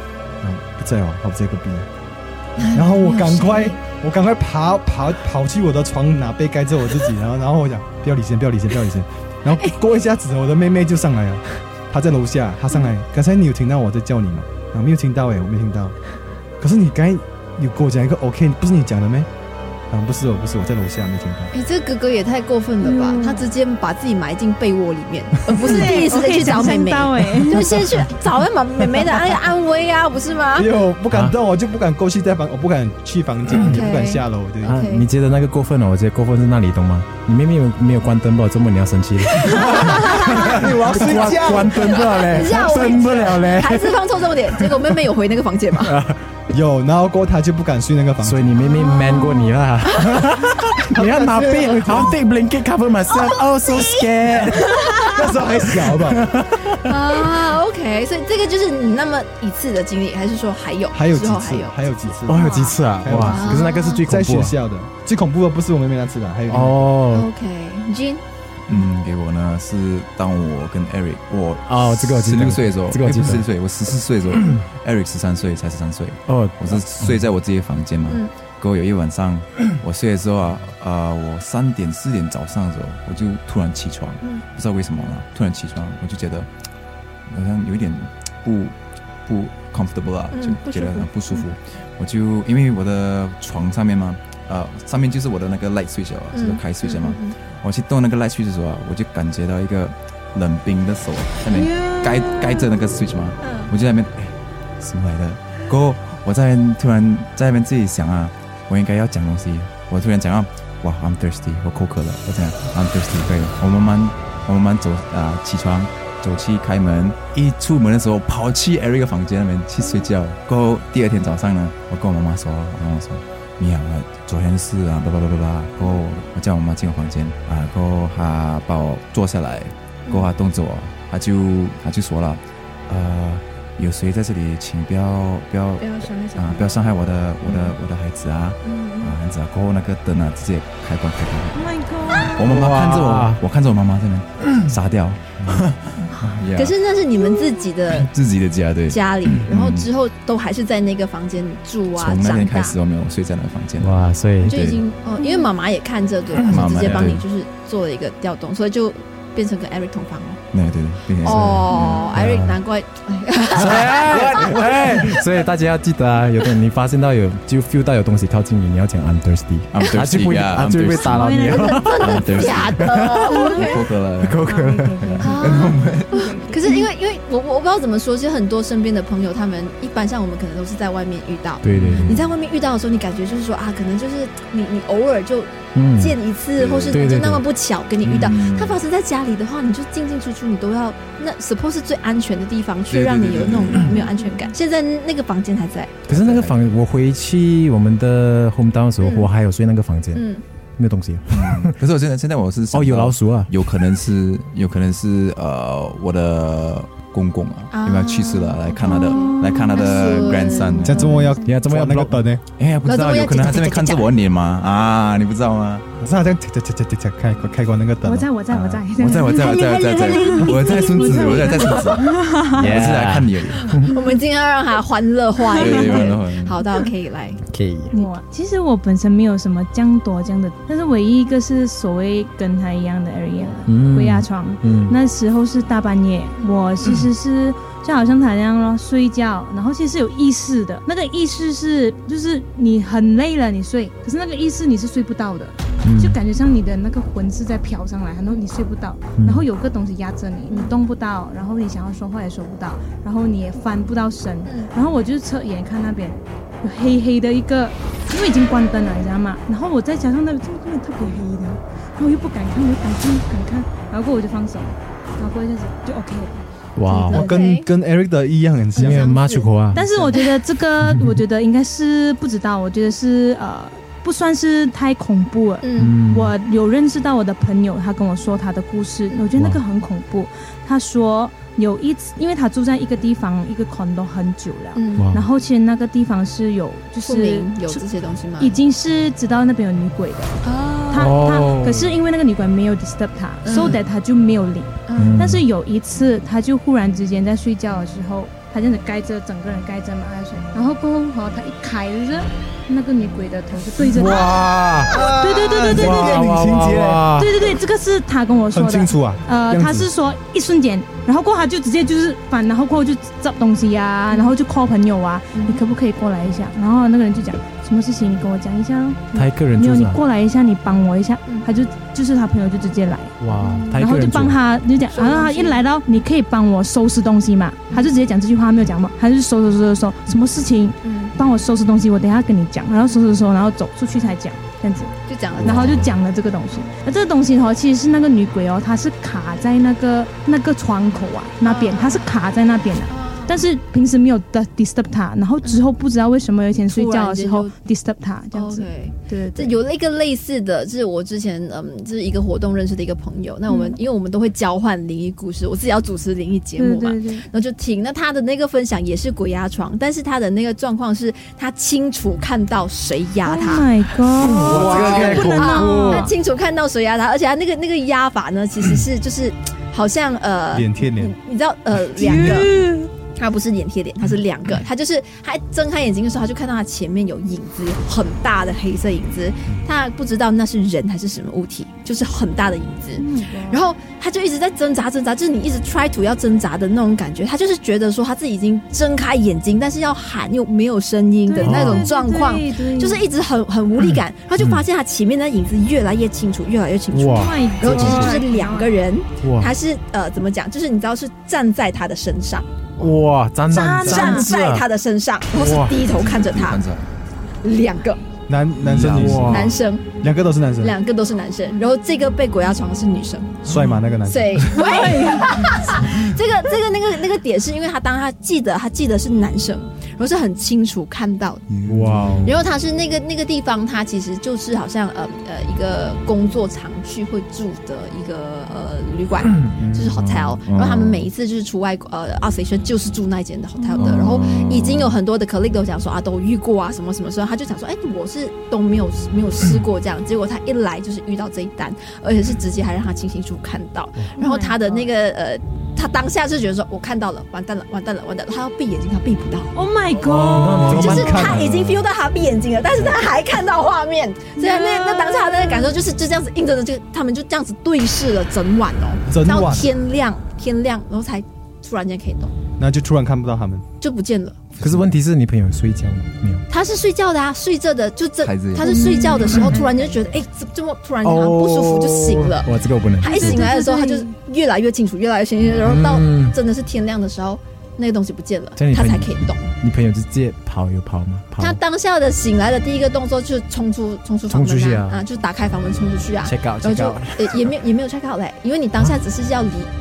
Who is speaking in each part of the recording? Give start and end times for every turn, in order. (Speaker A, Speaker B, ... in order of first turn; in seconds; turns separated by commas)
Speaker A: 0.4-1.9, Speaker B: 2.6-3.8, Speaker A: 2.7-15.9, Speaker A: 16.6-19.3, Speaker A: 19.9-21.5, Speaker B: 21.5-30.7, Speaker C: 22.8-23.5, Speaker C: 25.6-28.1, Speaker A: 30.6-34.9, Speaker B: 33.6-35.1, Speaker D: 34.7-44.9, Speaker B: 39.4-40.6, Speaker A: 39.5-42.1, Speaker B: 41.8-46.0, Speaker D: 45.8-46.2, Speaker A: 46.5-48.6, Speaker D: 48.2-56.8, Speaker A: 50.9-52.2, Speaker B: 53.1-55.2, Speaker A: 55.1-56.3, Speaker B: 56.7-64.0, Speaker A: 60.9-67.0, Speaker D: 62.3-64.6, Speaker D: 66.5-67.3, Speaker B: 67.1-68.2, Speaker E: 68.7-86.5, Speaker D: 71.7-73.5, Speaker D: 76.3-77.2, Speaker E: 87.3-146.8, Speaker B: 90.3-91.4, Speaker B: 96.3-97.3, Speaker B: 101.5-102.0, Speaker B: 103.4-103.7, Speaker B: 135.8-136.8, Speaker B: 137.5-137.8, Speaker B: 138.6-139.2, Speaker C: 141.5-142.6, Speaker D: 142.5-143.4, Speaker B: 146.6-148.1, Speaker E: 147.9-149.9, Speaker B: 148.9-152.8, Speaker E: 151.9-154.8, Speaker D: 153.8-154.6, Speaker B: 154.4-160.4, Speaker C: 155.2-155.5, Speaker E: 156.4-157.2, Speaker D: 156.5-157.2, Speaker E: 160.5-162.2, Speaker B: 161.2-165.4, Speaker D: 162.1-162.6, Speaker D: 163.6-173.4, Speaker E: 169.7-171.3, Speaker C: 170.9-172.0, Speaker B: 171.4-173.8, Speaker E: 171.9-172.9, Speaker C: 173.2-173.8, Speaker E: 173.5-176.3, Speaker D: 174.2-175.2, Speaker C: 174.4-176.8, Speaker B: 175.2-196.0, Speaker D: 181.6-182.2, Speaker E: 181.8-182.2, Speaker D: 185.8-186.2, Speaker E: 186.6-187.2, Speaker D: 186.9-187.4, Speaker E: 188.0-188.8, Speaker E: 192.9-194.0, Speaker C: 194.0-194.4, Speaker D: 196.1-200.2, Speaker E: 196.1-196.7, Speaker B: 199.0-199.3, Speaker B: 200.1-200.4, Speaker D: 200.8-201.8, Speaker E: 201.3-211.2, Speaker D: 202.7-203.5, Speaker B: 207.7-211.2, Speaker C: 208.8-211.6, Speaker A: 210.8-212.4, Speaker D: 211.4-212.2, Speaker E: 212.6-215.8, Speaker B: 212.8-214.1, Speaker A: 216.0-218.3, Speaker C: 218.0-222.7, Speaker E: 218.5-223.7, Speaker B: 219.3-222.0, Speaker D: 222.6-223.9, Speaker B: 223.7-227.4, Speaker E: 225.6-226.6, Speaker C: 225.6-226.1, Speaker D: 227.5-227.9, Speaker C: 227.9-267.4, Speaker D: 233.7-235.0, Speaker D: 245.8-246.2, Speaker D: 249.2-249.4, Speaker B: 254.5-254.7, Speaker D: 266.8-267.3, Speaker B: 266.9-267.7, Speaker A: 267.1-269.1, Speaker B: 268.8-269.6, Speaker D: 268.8-269.9, Speaker C: 269.7-287.9, Speaker B: 275.6-275.9, Speaker D: 275.8-276.3, Speaker D: 279.4-279.6, Speaker B: 284.8-285.1, Speaker D: 285.0-285.3, Speaker B: 287.1-288.5, Speaker C: 288.4-290.4, Speaker B: 290.4-291.1, Speaker C: 290.9-306.2, Speaker D: 290.9-292.0, Speaker B: 293.4-293.8, Speaker B: 294.9-295.2, Speaker D: 295.0-295.4, Speaker D: 303.9-305.0, Speaker A: 304.9-307.1, Speaker D: 305.7-307.3, Speaker C: 307.1-349.6, Speaker A: 308.5-309.9, Speaker B: 315.3-315.6, Speaker D: 319.1-320.0, Speaker D: 323.2-324.4, Speaker B: 324.9-325.6, Speaker B: 330.8-331.1, Speaker B: 335.1-335.8, Speaker E: 335.4-335.9, Speaker B: 341.4-342.1, Speaker B: 342.9-343.4, Speaker B: 346.6-347.5, Speaker B: 348.3-363.7, Speaker C: 353.5-353.8, Speaker C: 356.6-357.3, Speaker C: 363.2-366.1, Speaker D: 364.2-366.0, Speaker B: 364.2-402.5, Speaker A: 370.5-371.1, Speaker C: 372.0-372.9, Speaker C: 383.0-383.6, Speaker C: 391.2-393.1, Speaker D: 391.4-391.9, Speaker D: 394.4-394.6, Speaker D: 396.9-397.9, Speaker C: 397.1-398.9, Speaker D: 399.2-399.5, Speaker D: 402.8-404.7, Speaker B: 403.5-406.6, Speaker A: 403.5-404.3, Speaker D: 405.4-405.7, Speaker E: 406.1-406.9, Speaker B: 407.4-408.1, Speaker A: 408.3-410.8, Speaker E: 408.6-409.4, Speaker D: 408.8-409.6, Speaker B: 409.2-410.0, Speaker B: 410.6-413.4, Speaker A: 413.4-414.3, Speaker B: 414.1-421.5, Speaker C: 414.6-415.3, Speaker E: 421.5-422.3, Speaker D: 421.7-422.4, Speaker B: 422.2-449.5, Speaker E: 430.2-431.1, Speaker C: 433.6-434.1, Speaker E: 433.8-435.0, Speaker C: 444.2-444.9, Speaker C: 449.6-451.2, Speaker D: 450.0-451.5, Speaker A: 450.5-451.5, Speaker B: 450.7-462.4, Speaker C: 454.4-455.7, Speaker A: 459.1-459.7, Speaker A: 462.6-463.6, Speaker B: 463.8-464.5, Speaker E: 464.6-464.9, Speaker D: 464.6-466.4, Speaker B: 466.5-479.5, Speaker E: 468.2-469.0, Speaker C: 468.6-470.2, Speaker D: 471.0-473.5, Speaker C: 473.0-474.1, Speaker D: 475.6-476.4, Speaker D: 478.6-481.6, Speaker B: 481.4-489.7, Speaker D: 484.3-485.0, Speaker D: 486.2-487.6